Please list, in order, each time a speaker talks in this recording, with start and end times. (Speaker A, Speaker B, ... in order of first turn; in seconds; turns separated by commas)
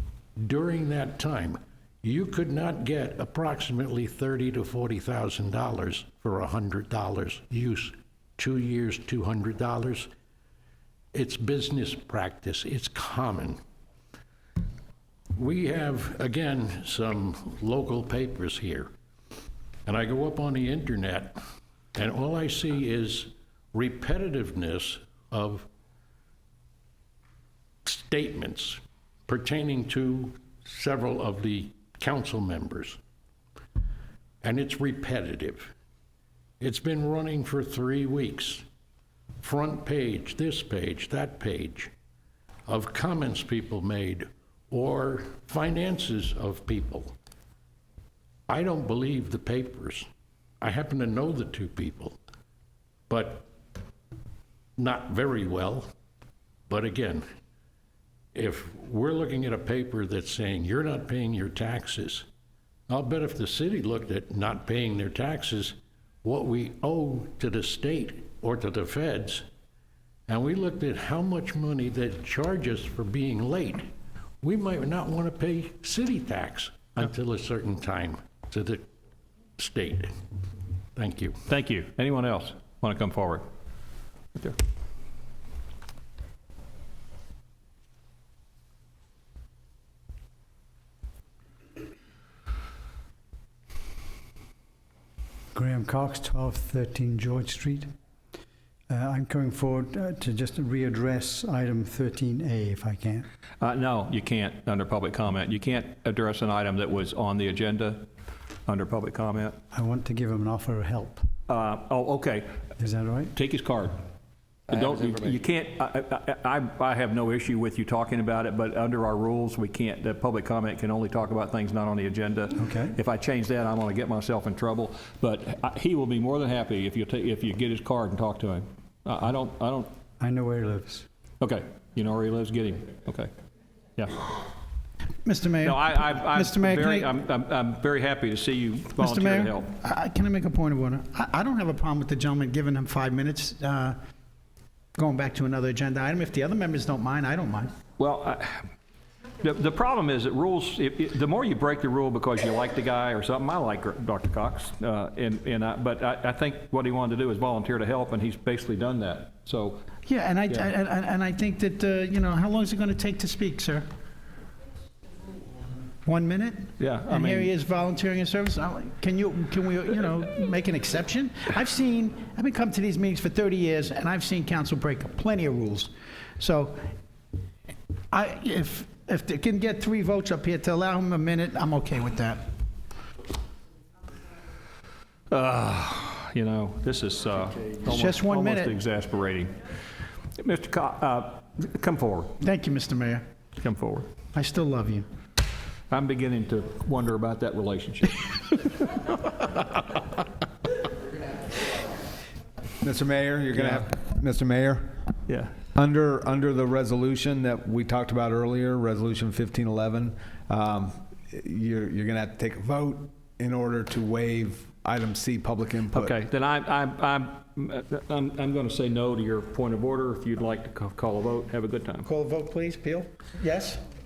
Speaker A: 0.4-10.1, Speaker A: 11.1-13.6, Speaker A: 15.3-18.9, Speaker A: 19.9-21.4, Speaker A: 21.9-25.7, Speaker A: 27.8-33.0, Speaker A: 34.4-35.7, Speaker A: 36.6-38.6, Speaker A: 39.4-41.9, Speaker A: 42.7-47.1, Speaker A: 48.5-50.1, Speaker A: 50.6-52.2, Speaker A: 53.1-53.5, Speaker A: 54.8-55.9, Speaker A: 56.7-57.2, Speaker A: 58.3-62.3, Speaker A: 62.9-69.4, Speaker A: 70.3-73.9, Speaker A: 74.4-78.8, Speaker A: 79.6-80.1, Speaker A: 81.0-81.4, Speaker B: 81.5-83.4, Speaker C: 95.5-97.9, Speaker C: 98.9-103.3, Speaker B: 103.6-108.1, Speaker B: 108.7-109.6, Speaker C: 109.7-111.2, Speaker B: 111.5-112.5, Speaker C: 112.8-113.3, Speaker B: 113.3-114.0, Speaker B: 114.7-129.9, Speaker D: 114.7-115.3, Speaker C: 122.5-123.0, Speaker C: 130.2-131.1, Speaker B: 131.4-133.3, Speaker B: 134.0-134.3, Speaker E: 135.2-137.1, Speaker B: 135.6-139.7, Speaker E: 139.0-143.9, Speaker E: 144.9-147.7, Speaker B: 148.0-148.6, Speaker B: 149.4-159.8, Speaker E: 160.1-163.8, Speaker E: 166.0-176.9, Speaker B: 166.8-167.5, Speaker E: 178.1-182.4, Speaker B: 185.3-189.5, Speaker E: 187.8-188.8, Speaker B: 190.4-192.4, Speaker E: 192.4-193.2, Speaker B: 193.6-194.1, Speaker E: 194.3-195.1, Speaker B: 195.9-199.0, Speaker D: 202.8-205.0, Speaker B: 205.3-205.5, Speaker D: 205.7-216.2, Speaker B: 215.9-222.1, Speaker E: 222.1-223.8